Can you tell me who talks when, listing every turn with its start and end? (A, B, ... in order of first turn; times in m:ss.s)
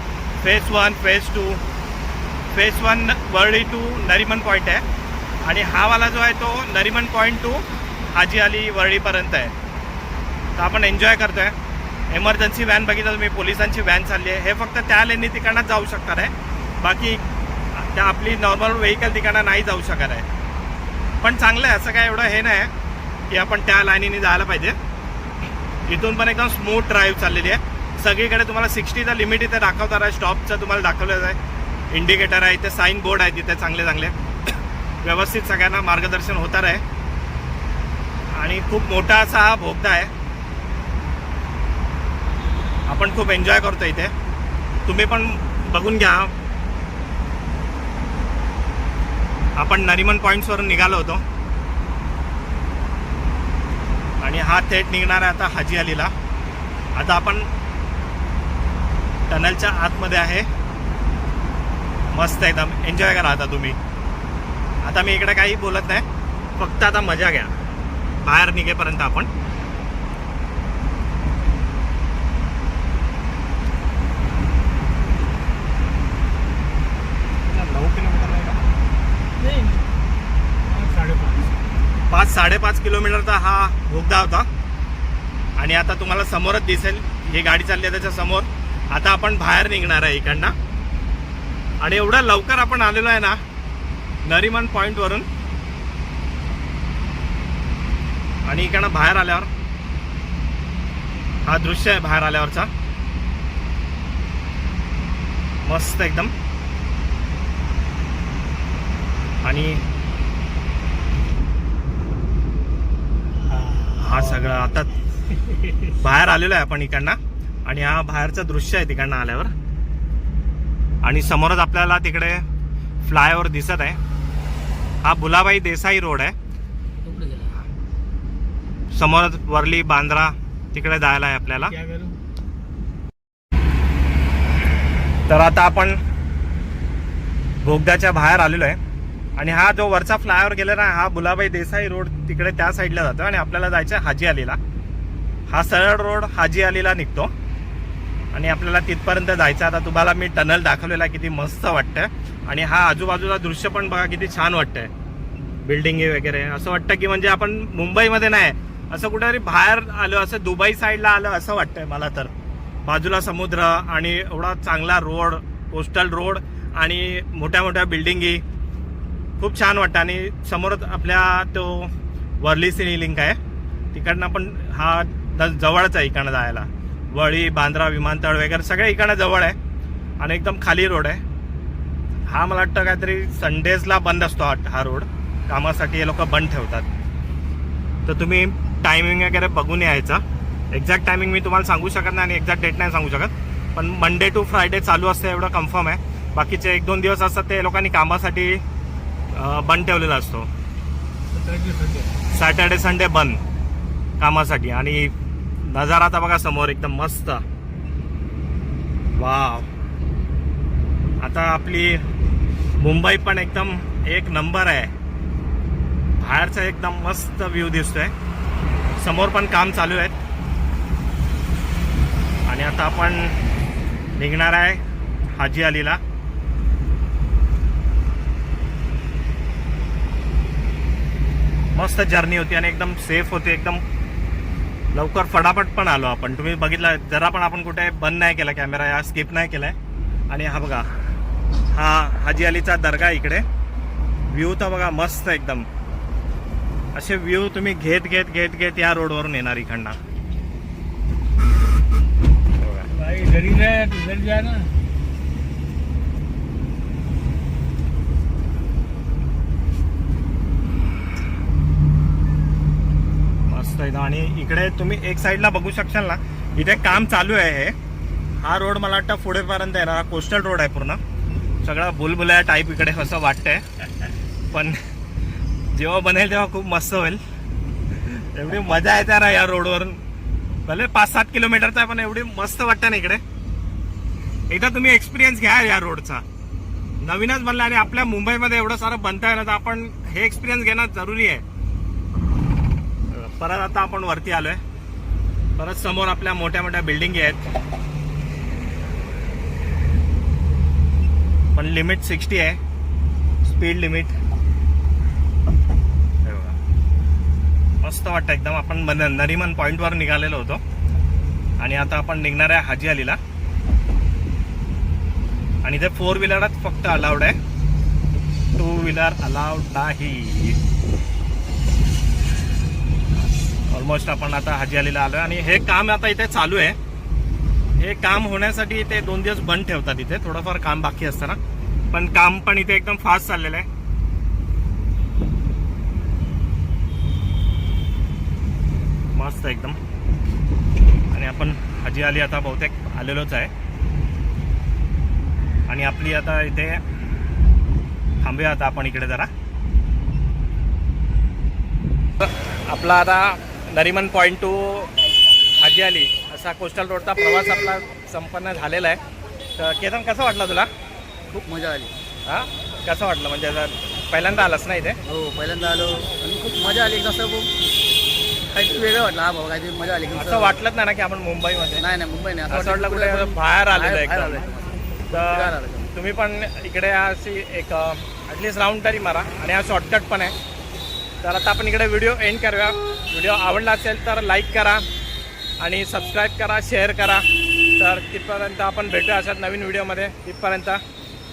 0:00.4-0:01.6 A
0:02.5-0:04.8 A
0:05.4-0:09.5 A
0:10.6-0:11.6 A
0:12.1-0:17.2 A
0:17.7-0:20.3 A
0:21.2-0:22.7 A
0:23.3-0:24.8 A
0:25.9-0:31.4 A
0:31.9-0:34.2 A
0:35.0-0:36.8 A
0:38.3-0:40.1 A
0:42.9-0:44.1 A
0:44.9-0:46.3 A
0:49.6-0:51.2 A
0:54.2-0:56.1 A
0:57.0-0:57.5 A
0:59.3-1:00.5 A
1:02.1-1:03.8 A
1:04.8-1:06.1 A
1:06.6-1:07.5 A
1:08.2-1:09.3 A
1:17.4-1:18.6 A
1:19.4-1:19.9 B
1:20.7-1:21.6 B
1:22.1-1:24.5 A
1:25.6-1:30.6 A
1:31.8-1:33.4 A
1:34.2-1:35.3 A
1:38.5-1:39.5 A
1:41.5-1:42.7 A
1:45.6-1:46.3 A
1:49.4-1:49.8 A
1:53.8-1:55.0 A
1:55.8-1:59.5 A
2:01.0-2:02.4 A
2:03.0-2:04.0 A
2:05.0-2:06.4 A
2:07.0-2:07.6 C
2:08.9-2:11.8 A
2:11.8-2:12.2 B
2:15.3-2:16.0 A
2:17.6-2:18.8 A
2:19.4-2:24.6 A
2:25.5-2:27.3 A
2:28.3-2:34.9 A
2:35.6-2:42.3 A
2:42.8-2:48.4 A
2:49.4-2:53.4 A
2:53.9-2:59.6 A
3:00.2-3:01.2 A
3:02.3-3:06.9 A
3:08.1-3:18.6 A
3:19.3-3:20.5 A
3:21.3-3:22.1 B
3:22.3-3:23.4 A
3:24.2-3:27.4 A
3:29.2-3:29.7 A
3:31.2-3:32.1 A
3:32.8-3:34.9 A
3:36.2-3:38.1 A
3:39.0-3:40.2 A
3:42.5-3:43.4 A
3:44.2-3:44.8 A
3:45.4-3:46.0 A
3:51.7-3:53.8 A
3:54.9-3:59.8 A
4:00.3-4:00.9 A
4:01.7-4:03.4 A
4:04.3-4:05.7 A
4:07.0-4:10.0 A
4:12.6-4:12.9 A
4:12.9-4:14.7 B
4:23.5-4:27.8 A
4:28.4-4:31.0 A
4:31.6-4:33.6 A
4:34.5-4:34.8 A
4:35.7-4:37.2 A
4:38.0-4:40.0 A
4:40.6-4:43.2 A
4:44.5-4:46.2 A
4:47.0-4:51.4 A
4:53.1-4:54.6 A
4:55.6-4:57.5 A
5:01.6-5:02.6 A
5:03.4-5:04.2 A
5:06.2-5:06.6 A
5:07.8-5:10.6 A
5:11.6-5:13.2 A
5:15.6-5:17.4 A
5:18.6-5:20.6 A
5:23.7-5:26.8 A
5:27.8-5:31.4 A
5:31.9-5:33.7 A
5:39.2-5:39.8 A
5:41.1-5:43.5 A
5:45.7-5:46.8 A
5:48.2-5:49.3 A
5:52.2-5:54.9 A
5:55.6-5:59.0 A
5:59.6-6:00.7 A
6:01.4-6:01.9 C
6:02.3-6:05.0 A
6:05.1-6:07.5 C
6:08.5-6:10.6 C
6:10.1-6:11.9 A
6:11.8-6:15.9 C
6:12.5-6:14.5 A
6:15.1-6:20.4 A
6:21.2-6:24.9 A
6:25.6-6:30.8 A